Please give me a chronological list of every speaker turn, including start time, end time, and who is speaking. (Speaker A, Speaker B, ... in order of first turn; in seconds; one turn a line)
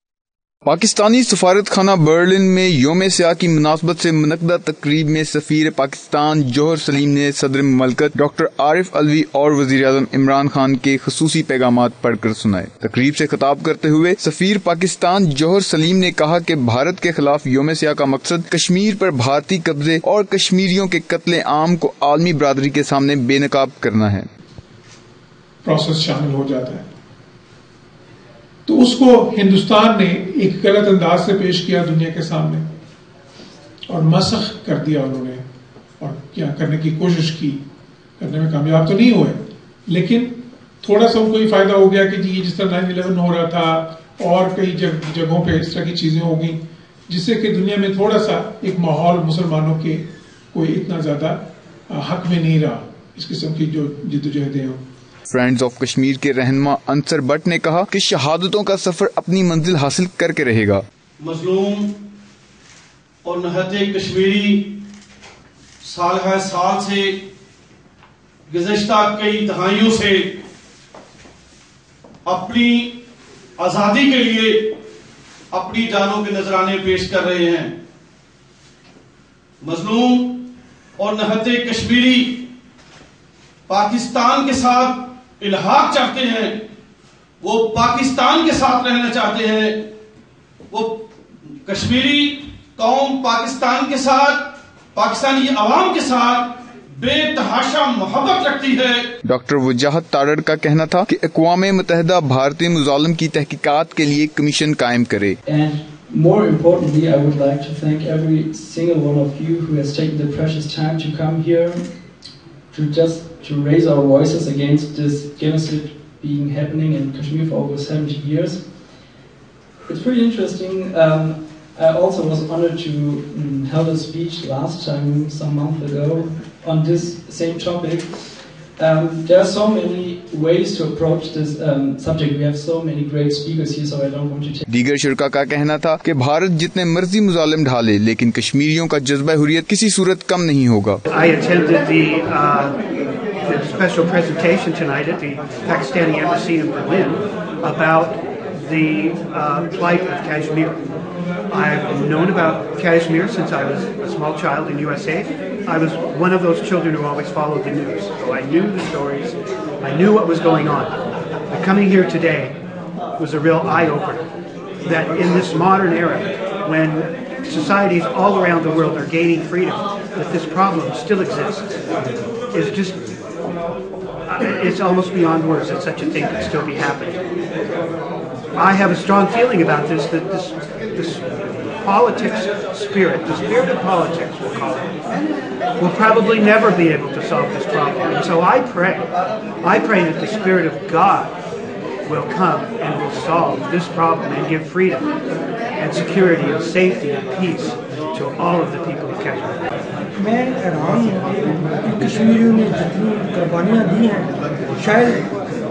Speaker A: 0.7-24.3
Speaker B: 25.6-26.9
Speaker B: 28.7-32.6
Speaker B: 33.9-35.4
Speaker B: 36.0-37.6
Speaker B: 38.2-54.8
Speaker A: 55.3-60.8
Speaker C: 61.2-61.9
Speaker C: 63.2-64.6
Speaker C: 65.8-67.2
Speaker C: 68.5-70.4
Speaker C: 72.2-72.9
Speaker C: 73.6-74.7
Speaker C: 75.5-77.7
Speaker C: 79.6-80.2
Speaker C: 81.0-82.4
Speaker C: 83.7-86.6
Speaker C: 87.4-89.8
Speaker C: 90.7-91.0
Speaker C: 91.7-94.4
Speaker C: 94.9-99.0
Speaker A: 99.3-105.4
Speaker D: 105.5-111.8
Speaker D: 112.7-118.6
Speaker D: 119.9-128.1
Speaker D: 128.8-134.7
Speaker A: 134.7-141.0
Speaker E: 141.1-142.8
Speaker E: 143.4-150.8
Speaker E: 151.5-160.9
Speaker E: 161.5-162.6
Speaker E: 163.2-164.2
Speaker E: 164.8-171.7
Speaker E: 172.5-173.0
Speaker E: 174.3-177.2
Speaker E: 178.6-184.9
Speaker E: 185.8-189.1
Speaker E: 189.6-191.4
Speaker E: 192.1-195.1
Speaker E: 195.8-199.6
Speaker F: 200.2-205.3